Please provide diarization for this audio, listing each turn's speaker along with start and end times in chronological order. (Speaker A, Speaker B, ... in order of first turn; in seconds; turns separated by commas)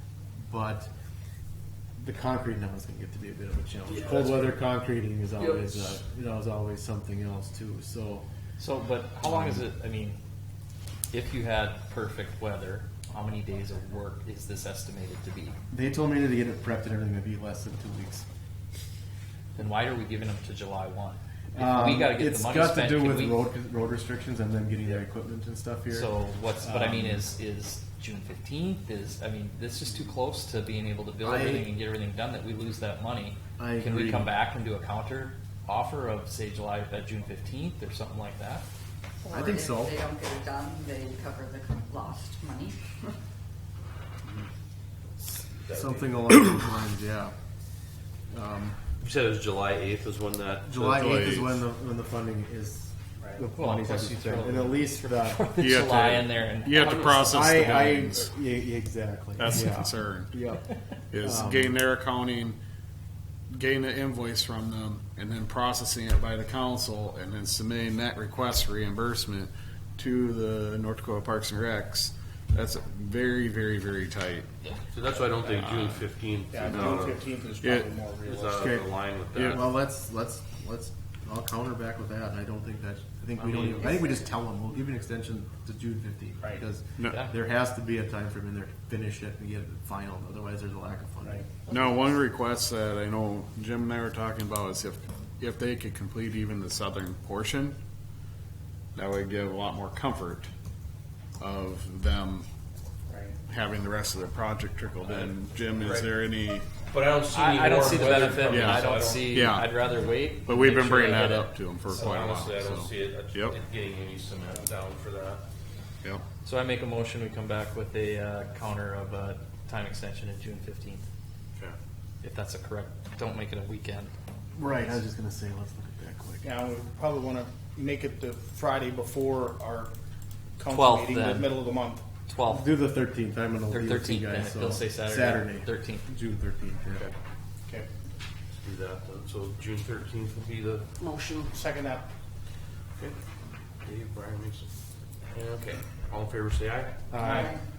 Speaker A: 0.5-0.9, Speaker A: 2.0-8.2, Speaker B: 3.9-4.5, Speaker B: 5.4-6.0, Speaker C: 8.6-10.2, Speaker A: 9.2-9.7, Speaker C: 11.1-15.6, Speaker A: 15.7-18.2, Speaker C: 19.6-23.4, Speaker A: 21.5-26.1, Speaker C: 25.9-38.6, Speaker A: 26.6-27.2, Speaker A: 31.2-31.7, Speaker A: 33.6-34.3, Speaker D: 39.2-43.1, Speaker A: 39.3-39.9, Speaker B: 45.6-46.1, Speaker A: 45.7-47.3, Speaker A: 48.3-48.8, Speaker B: 49.0-51.2, Speaker A: 50.7-55.4, Speaker E: 50.9-51.6, Speaker C: 53.6-58.0, Speaker E: 55.6-58.3, Speaker B: 56.7-57.4, Speaker A: 57.2-60.7, Speaker E: 59.4-60.3, Speaker E: 61.1-62.6, Speaker A: 61.2-61.8, Speaker E: 63.5-74.5, Speaker B: 74.9-77.2, Speaker F: 76.5-78.8, Speaker E: 76.7-77.1, Speaker E: 77.6-77.9, Speaker B: 78.2-79.6, Speaker A: 78.6-91.4, Speaker E: 79.3-79.6, Speaker B: 83.5-83.9, Speaker C: 87.0-87.3, Speaker E: 91.7-97.8, Speaker E: 98.9-100.5, Speaker E: 101.4-102.5, Speaker E: 103.5-106.7, Speaker B: 105.0-106.1, Speaker B: 106.9-109.5, Speaker C: 107.3-111.5, Speaker E: 108.5-113.6, Speaker B: 111.9-115.4, Speaker C: 116.4-121.0, Speaker C: 122.2-124.1, Speaker A: 124.5-126.5, Speaker F: 126.4-129.9, Speaker F: 130.6-132.0, Speaker C: 130.7-131.6, Speaker C: 132.3-132.7, Speaker A: 132.4-137.1, Speaker C: 133.7-136.1, Speaker B: 138.6-140.9, Speaker F: 141.5-142.1, Speaker B: 143.8-144.7, Speaker B: 145.3-147.1, Speaker F: 147.1-147.5, Speaker A: 147.1-147.5, Speaker D: 147.2-147.6